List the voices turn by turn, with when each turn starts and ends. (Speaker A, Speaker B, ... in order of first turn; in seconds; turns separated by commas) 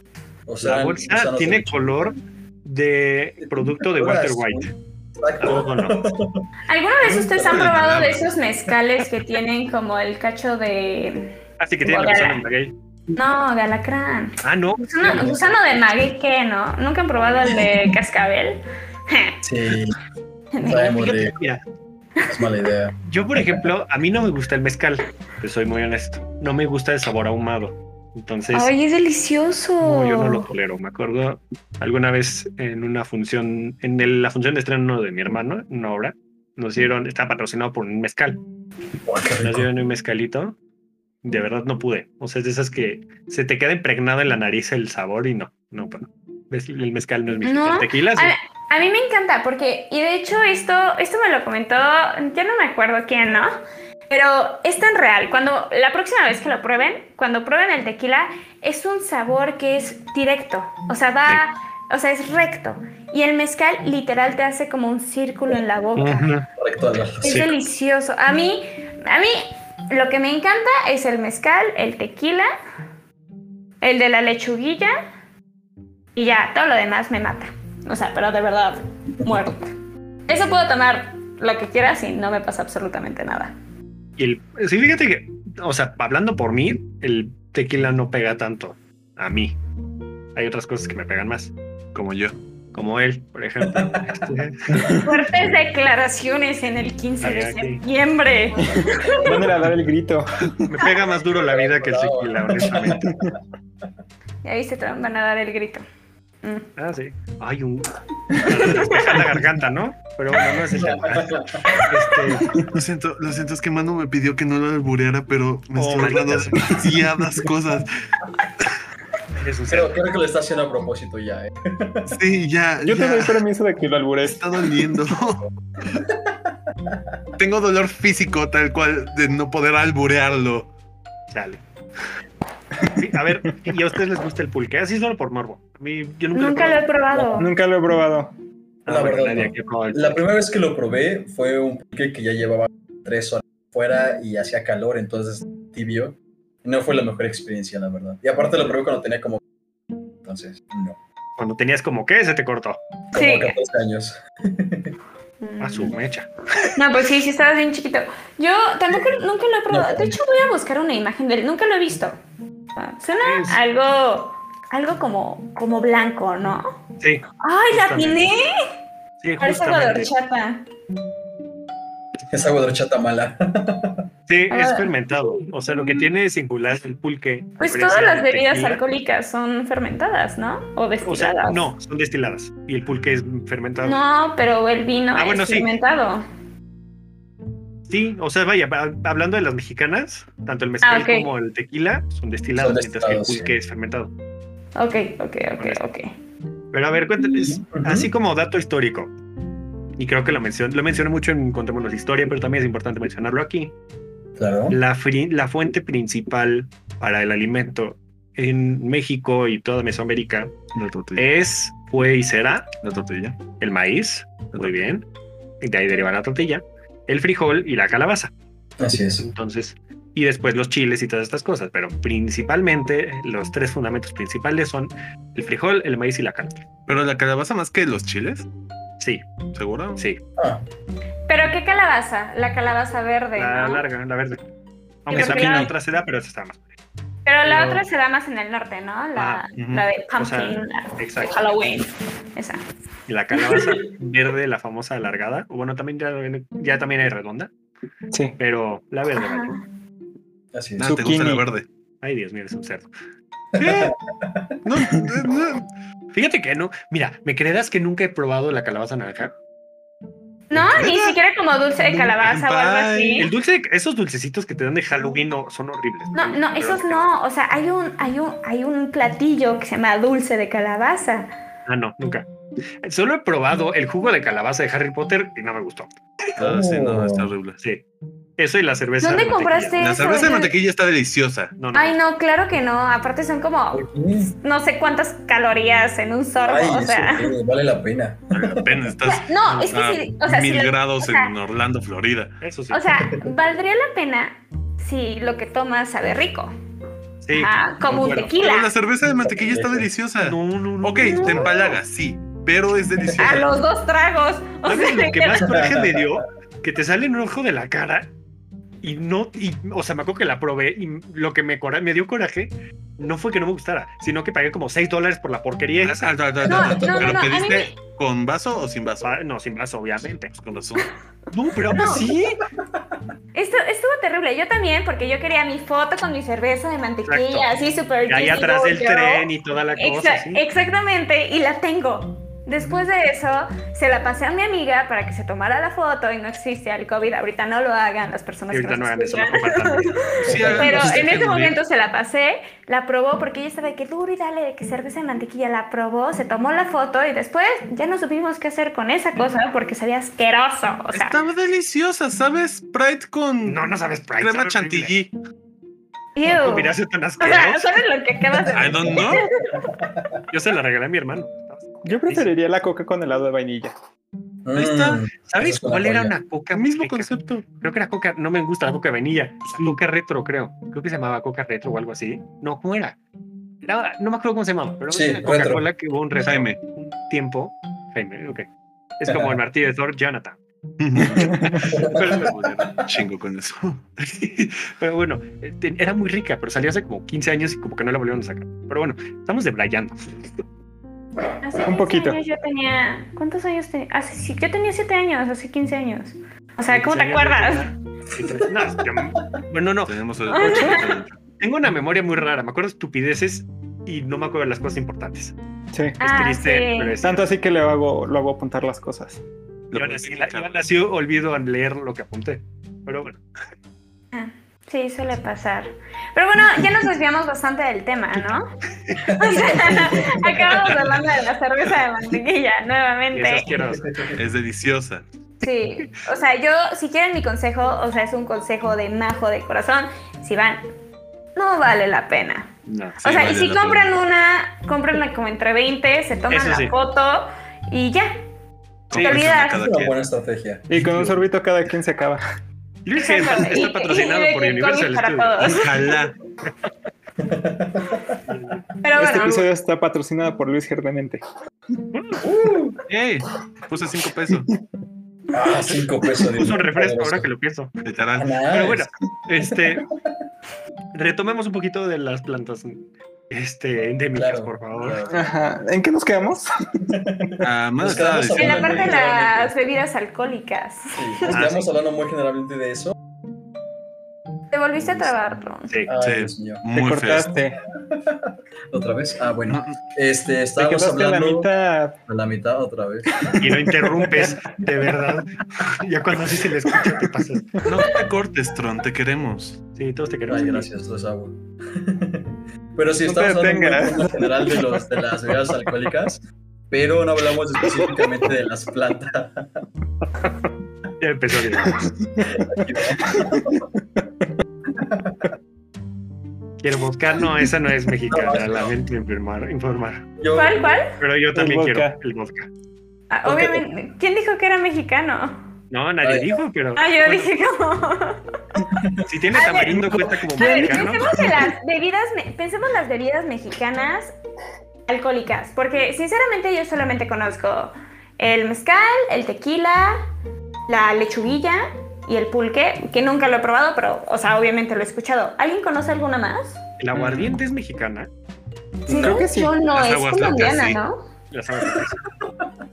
Speaker A: 0.5-2.1, Speaker B: 0.6-4.7, Speaker A: 3.4-6.5, Speaker B: 5.4-6.0, Speaker C: 6.7-12.4, Speaker A: 7.0-8.2, Speaker D: 7.5-8.3, Speaker B: 11.6-12.7, Speaker C: 13.2-19.4, Speaker B: 14.4-15.5, Speaker A: 15.0-15.6, Speaker A: 17.4-17.9, Speaker A: 19.4-20.0, Speaker C: 20.5-21.2, Speaker A: 20.6-21.4, Speaker B: 21.1-21.6, Speaker A: 22.2-23.0, Speaker B: 23.1-28.7, Speaker C: 28.5-30.5, Speaker B: 29.8-38.4, Speaker A: 39.1-39.7, Speaker B: 39.4-40.6, Speaker B: 41.2-48.3, Speaker C: 47.5-53.5, Speaker C: 54.1-66.3, Speaker B: 66.0-66.5, Speaker A: 66.6-67.5, Speaker C: 67.2-72.5, Speaker C: 73.8-74.9, Speaker C: 76.2-79.7, Speaker C: 80.3-83.5, Speaker B: 84.2-89.6, Speaker B: 90.3-91.5, Speaker D: 91.9-92.3, Speaker B: 92.7-94.9, Speaker A: 93.8-94.1, Speaker E: 94.7-95.1, Speaker C: 95.0-99.5, Speaker B: 97.2-97.8, Speaker E: 98.6-100.7, Speaker B: 100.7-103.1, Speaker A: 101.3-103.3, Speaker E: 103.0-103.4, Speaker C: 104.4-105.8, Speaker C: 106.4-106.7, Speaker B: 106.8-112.5, Speaker A: 110.7-111.9, Speaker D: 112.7-117.9, Speaker B: 115.8-116.8, Speaker B: 119.4-120.0, Speaker A: 119.7-122.2, Speaker D: 122.1-123.4, Speaker E: 122.8-124.5, Speaker D: 124.2-125.5, Speaker A: 126.1-126.3, Speaker D: 127.4-130.7, Speaker B: 131.3-131.6, Speaker B: 132.9-136.9, Speaker C: 136.3-137.5, Speaker A: 137.1-137.4, Speaker E: 137.4-138.3, Speaker B: 138.9-140.2, Speaker A: 138.9-149.4, Speaker A: 150.3-151.0, Speaker B: 151.4-152.8, Speaker A: 153.1-154.9, Speaker C: 153.1-153.6, Speaker C: 155.4-156.0, Speaker B: 155.6-156.7, Speaker C: 156.8-162.2, Speaker A: 159.7-160.2, Speaker C: 162.8-166.8, Speaker B: 163.2-163.6, Speaker B: 167.0-168.3, Speaker C: 167.4-168.5, Speaker B: 169.2-170.1, Speaker C: 169.4-170.6, Speaker A: 172.3-174.1, Speaker B: 174.3-178.8, Speaker C: 174.5-176.0, Speaker C: 177.6-181.6, Speaker B: 181.0-184.0, Speaker C: 183.8-186.2, Speaker B: 185.2-185.7, Speaker B: 187.9-194.1, Speaker C: 190.8-191.3, Speaker A: 192.6-193.5, Speaker C: 194.8-196.1, Speaker B: 196.7-199.1, Speaker A: 197.3-198.1, Speaker B: 200.0-203.7, Speaker A: 204.4-204.8, Speaker B: 204.7-210.6, Speaker D: 210.8-211.3, Speaker B: 211.2-212.7, Speaker D: 212.8-213.4, Speaker B: 213.6-215.1, Speaker B: 215.6-218.3, Speaker A: 218.8-219.2, Speaker B: 219.2-226.6, Speaker D: 226.9-228.5, Speaker B: 229.0-229.2, Speaker D: 229.5-230.1, Speaker A: 230.4-230.6, Speaker C: 231.3-233.8, Speaker B: 233.4-234.4, Speaker B: 235.1-236.8, Speaker C: 235.1-235.7, Speaker E: 235.1-235.7, Speaker C: 237.3-242.6, Speaker B: 237.4-237.9, Speaker B: 239.2-239.5, Speaker D: 239.6-239.9, Speaker B: 240.2-241.6, Speaker B: 243.1-247.5, Speaker C: 243.3-243.9, Speaker E: 248.1-248.4, Speaker B: 248.4-249.6, Speaker C: 249.1-249.6, Speaker A: 250.5-250.9, Speaker D: 250.8-251.7, Speaker E: 250.8-251.4, Speaker B: 252.0-252.9, Speaker A: 253.6-254.6, Speaker D: 253.6-253.9, Speaker D: 254.7-255.7, Speaker B: 256.1-259.3, Speaker C: 260.5-263.3, Speaker D: 260.7-261.2, Speaker D: 261.8-263.3, Speaker B: 263.2-267.1, Speaker C: 266.1-271.3, Speaker B: 271.7-272.3, Speaker B: 272.8-275.9, Speaker D: 276.4-277.6, Speaker A: 276.4-277.3, Speaker B: 278.4-279.8, Speaker C: 279.0-280.5, Speaker D: 279.8-281.6, Speaker B: 281.6-282.0, Speaker C: 281.7-287.3, Speaker A: 283.7-284.4, Speaker A: 286.4-288.7, Speaker D: 288.3-292.4, Speaker C: 289.0-291.3, Speaker B: 289.4-289.8, Speaker B: 292.4-292.9, Speaker C: 292.7-296.5, Speaker B: 297.2-298.3, Speaker C: 297.3-298.7, Speaker D: 298.0-303.5, Speaker A: 299.2-299.9, Speaker B: 300.2-301.5, Speaker C: 301.0-301.8, Speaker A: 303.0-303.5, Speaker C: 303.2-305.7, Speaker B: 304.6-308.1, Speaker A: 305.4-305.9, Speaker B: 308.8-316.2, Speaker D: 315.8-319.1, Speaker C: 316.4-317.8, Speaker A: 316.5-317.1, Speaker B: 319.0-320.3, Speaker D: 320.3-320.9, Speaker B: 321.3-322.4, Speaker C: 321.7-322.0, Speaker C: 323.3-351.2, Speaker B: 327.1-327.5, Speaker B: 328.1-330.4, Speaker B: 338.5-340.9, Speaker A: 340.2-341.1, Speaker D: 340.3-341.6, Speaker D: 350.9-353.7, Speaker B: 353.4-354.9, Speaker D: 354.2-355.1, Speaker C: 356.1-359.7, Speaker B: 356.3-357.8, Speaker D: 358.5-359.2, Speaker A: 358.8-360.2, Speaker B: 360.3-362.3, Speaker E: 361.9-363.8, Speaker A: 364.4-366.1, Speaker B: 364.6-373.0, Speaker D: 364.6-364.9, Speaker D: 366.5-367.4, Speaker B: 373.6-380.4, Speaker A: 374.9-375.6, Speaker D: 376.2-376.6, Speaker A: 379.1-379.4, Speaker D: 380.8-383.8, Speaker E: 381.2-381.6, Speaker B: 381.6-382.5, Speaker A: 381.7-382.1, Speaker B: 384.0-390.3, Speaker C: 391.4-397.7, Speaker E: 391.6-392.2, Speaker B: 396.7-400.9, Speaker D: 399.9-401.2, Speaker C: 400.3-400.9, Speaker B: 401.4-405.4, Speaker E: 405.7-406.0, Speaker C: 406.0-407.0, Speaker B: 406.0-407.3, Speaker E: 407.0-409.2, Speaker D: 409.7-410.6, Speaker B: 409.7-413.2, Speaker C: 414.1-418.5, Speaker A: 419.1-420.9, Speaker C: 419.1-423.5, Speaker B: 423.1-424.1, Speaker A: 423.8-424.2, Speaker D: 424.2-425.0, Speaker C: 425.4-430.6, Speaker C: 431.4-432.5, Speaker B: 432.7-433.0, Speaker D: 433.0-433.9, Speaker C: 433.0-438.1, Speaker B: 436.3-436.8, Speaker D: 438.9-440.0, Speaker C: 439.0-439.7, Speaker A: 439.5-440.7, Speaker E: 440.7-442.2, Speaker B: 440.8-441.2, Speaker B: 442.9-445.5, Speaker C: 443.0-445.8, Speaker D: 445.4-446.1, Speaker A: 447.2-448.2, Speaker B: 448.3-448.6, Speaker C: 448.8-449.5, Speaker E: 449.0-451.2, Speaker B: 451.9-452.2, Speaker A: 452.2-452.8, Speaker D: 452.9-454.5, Speaker A: 455.3-457.3, Speaker B: 456.2-457.7, Speaker D: 457.8-458.4, Speaker A: 458.2-458.9, Speaker B: 458.5-459.9, Speaker B: 460.9-465.0, Speaker A: 464.2-465.3, Speaker E: 465.1-466.9, Speaker A: 466.9-469.5, Speaker D: 467.4-469.0, Speaker C: 468.3-471.4, Speaker A: 470.9-472.9, Speaker B: 471.3-471.7, Speaker C: 474.5-475.7, Speaker A: 474.8-475.1, Speaker A: 475.9-476.6, Speaker D: 476.0-477.3, Speaker E: 476.7-477.6, Speaker A: 477.8-481.5, Speaker D: 479.5-479.8, Speaker E: 480.6-482.0, Speaker A: 482.1-483.4, Speaker E: 483.1-484.3, Speaker B: 483.4-487.9, Speaker D: 487.7-489.6, Speaker B: 489.8-490.7, Speaker A: 490.3-499.6, Speaker E: 493.0-494.8, Speaker E: 497.8-498.1, Speaker B: 501.0-501.9, Speaker E: 501.6-503.8, Speaker A: 502.3-503.6, Speaker A: 504.7-505.3, Speaker B: 506.6-510.1, Speaker A: 508.1-508.7, Speaker A: 510.2-510.8, Speaker C: 510.3-511.0, Speaker B: 511.0-512.5, Speaker E: 511.3-512.0, Speaker C: 513.1-515.5, Speaker A: 513.2-513.6, Speaker B: 515.7-517.3, Speaker A: 516.0-516.4, Speaker C: 516.8-518.2, Speaker A: 518.8-519.0, Speaker B: 519.1-521.1, Speaker C: 519.3-524.1, Speaker E: 520.0-521.3, Speaker C: 524.9-530.0, Speaker C: 530.7-536.6, Speaker B: 536.8-538.1, Speaker D: 536.9-537.4, Speaker A: 538.9-539.3, Speaker C: 538.9-541.1, Speaker E: 538.9-539.6, Speaker D: 539.7-540.8, Speaker B: 541.3-542.0